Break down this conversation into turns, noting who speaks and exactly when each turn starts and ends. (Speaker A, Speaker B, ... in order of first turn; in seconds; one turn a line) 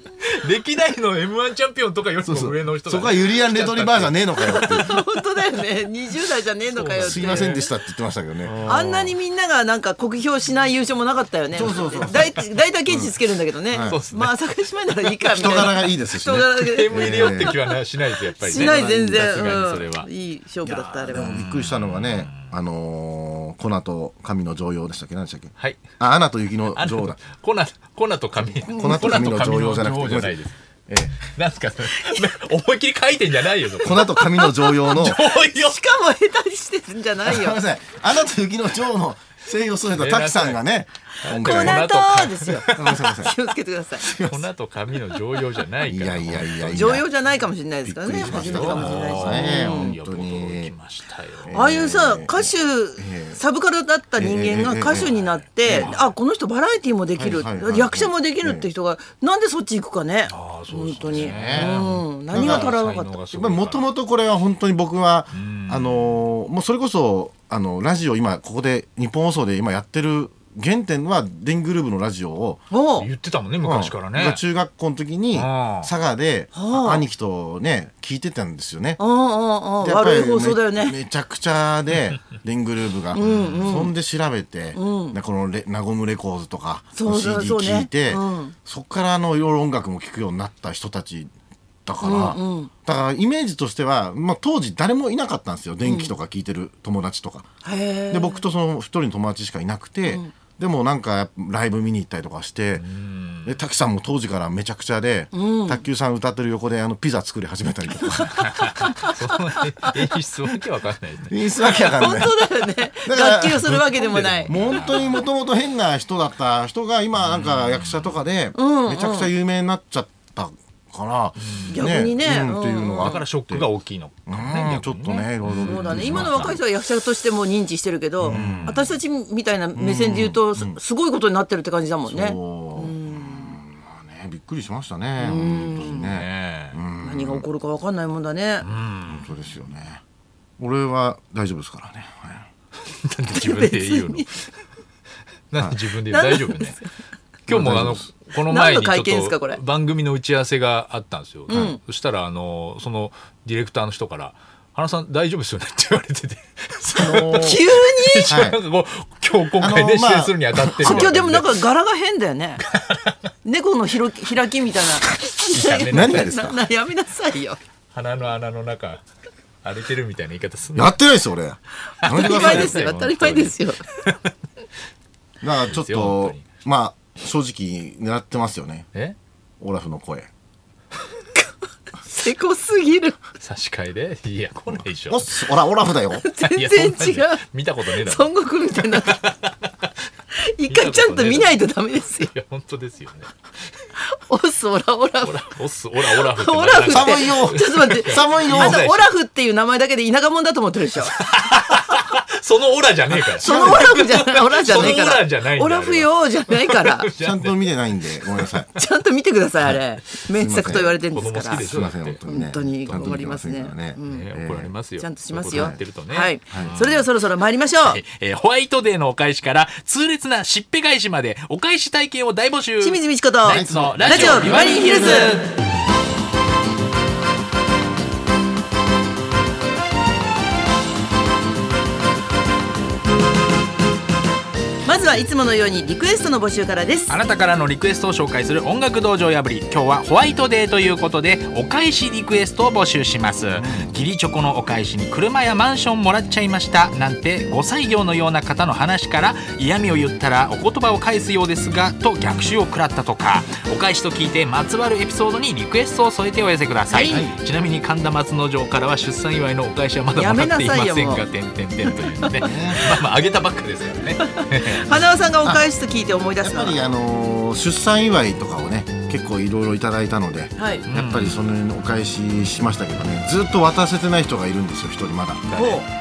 Speaker A: 0.4-4.7
Speaker B: 2.2-5.0
Speaker C: 4.4-7.6
Speaker A: 6.7-7.7
Speaker B: 7.0-9.1
Speaker A: 8.4-8.7
Speaker C: 8.6-17.7
Speaker B: 11.5-12.4
Speaker B: 12.9-13.1
Speaker B: 13.7-14.0
Speaker A: 13.8-14.4
Speaker A: 15.0-15.8
Speaker B: 15.3-17.6
Speaker A: 16.4-20.1
Speaker C: 18.4-21.3
Speaker B: 20.6-27.2
Speaker A: 21.1-22.6
Speaker A: 26.8-30.6
Speaker B: 28.5-30.3
Speaker C: 28.7-29.2
Speaker B: 30.9-31.2
Speaker A: 31.2-34.1
Speaker B: 33.8-35.3
Speaker C: 33.9-34.6
Speaker A: 34.9-35.8
Speaker C: 35.4-37.6
Speaker B: 37.2-41.8
Speaker A: 39.9-40.6
Speaker A: 41.2-43.1
Speaker C: 41.3-44.1
Speaker B: 42.7-43.3
Speaker B: 44.0-44.5
Speaker A: 44.1-47.0
Speaker B: 45.8-47.1
Speaker C: 46.6-49.9
Speaker B: 47.8-50.7
Speaker A: 48.1-51.5
Speaker B: 51.4-53.4
Speaker C: 51.5-63.1
Speaker B: 54.1-55.9
Speaker A: 54.9-56.1
Speaker B: 57.1-58.7
Speaker A: 60.3-63.9
Speaker B: 61.0-61.8
Speaker B: 62.3-62.8
Speaker B: 63.3-72.6
Speaker A: 65.3-66.2
Speaker C: 72.7-73.1
Speaker A: 73.0-74.4
Speaker B: 73.6-79.0
Speaker A: 75.3-75.9
Speaker C: 76.5-77.0
Speaker C: 79.0-81.0
Speaker B: 79.8-91.3
Speaker C: 83.1-83.9
Speaker A: 83.2-83.7
Speaker C: 84.8-85.2
Speaker C: 86.9-88.5
Speaker B: 91.9-97.5
Speaker C: 92.0-92.7
Speaker C: 95.8-96.1
Speaker C: 97.6-98.4
Speaker B: 98.1-102.8
Speaker A: 102.8-103.6
Speaker B: 103.4-108.7
Speaker C: 105.3-105.8
Speaker C: 108.0-110.1
Speaker A: 108.4-111.4
Speaker B: 111.3-113.8
Speaker C: 111.6-115.2
Speaker A: 113.6-115.2
Speaker B: 114.5-123.7
Speaker A: 117.2-118.1
Speaker C: 118.5-119.3
Speaker A: 121.4-121.9
Speaker C: 121.7-123.2
Speaker A: 123.0-126.5
Speaker B: 124.3-126.6
Speaker C: 125.6-133.6
Speaker A: 128.2-128.9
Speaker B: 128.2-128.9
Speaker B: 129.8-130.8
Speaker B: 132.1-137.4
Speaker C: 135.2-136.1
Speaker A: 135.8-136.8
Speaker C: 137.0-138.7
Speaker A: 138.6-139.3
Speaker B: 139.1-140.0
Speaker B: 140.6-142.4
Speaker A: 143.0-144.3
Speaker C: 143.3-144.3
Speaker A: 145.5-146.8
Speaker C: 146.1-146.9
Speaker A: 147.5-161.6
Speaker B: 147.5-148.1
Speaker C: 148.4-149.6
Speaker C: 151.5-151.8
Speaker B: 156.9-157.6
Speaker C: 157.3-158.3
Speaker B: 158.2-158.6
Speaker B: 159.6-161.2
Speaker C: 160.8-162.6
Speaker A: 162.7-163.1
Speaker C: 163.4-167.6
Speaker A: 165.4-166.3
Speaker B: 165.9-166.6
Speaker A: 167.9-169.0
Speaker A: 169.6-170.9
Speaker B: 170.8-172.8
Speaker A: 172.0-174.2
Speaker C: 172.0-173.8
Speaker B: 175.4-178.9
Speaker A: 175.7-176.4
Speaker B: 179.6-180.3
Speaker C: 182.0-183.2
Speaker A: 183.4-185.3
Speaker B: 185.1-186.2
Speaker C: 186.2-189.3
Speaker A: 186.4-189.7
Speaker C: 190.4-192.3
Speaker A: 190.7-193.3
Speaker C: 194.0-195.5
Speaker A: 195.2-199.1
Speaker C: 196.0-201.1
Speaker B: 196.8-198.8
Speaker A: 201.1-207.7
Speaker B: 203.3-203.9
Speaker C: 203.4-207.1
Speaker B: 204.7-205.1
Speaker B: 207.2-208.7
Speaker C: 208.7-211.7
Speaker B: 210.3-211.0
Speaker A: 210.7-212.2
Speaker B: 211.5-214.7
Speaker C: 212.2-214.2
Speaker A: 212.8-213.2
Speaker A: 214.0-217.1
Speaker C: 215.0-218.0
Speaker B: 215.5-215.8
Speaker B: 216.5-216.8
Speaker A: 217.8-225.5
Speaker C: 222.8-225.4
Speaker B: 223.5-224.2
Speaker C: 234.8-237.1
Speaker A: 237.1-265.0
Speaker B: 243.6-243.9
Speaker C: 256.9-257.3
Speaker B: 257.0-257.3
Speaker C: 260.1-261.2
Speaker C: 261.8-263.0
Speaker B: 262.3-262.8
Speaker C: 264.2-266.8
Speaker B: 266.4-275.5
Speaker C: 270.6-270.8
Speaker A: 270.9-271.4
Speaker A: 275.5-275.8
Speaker C: 275.6-275.8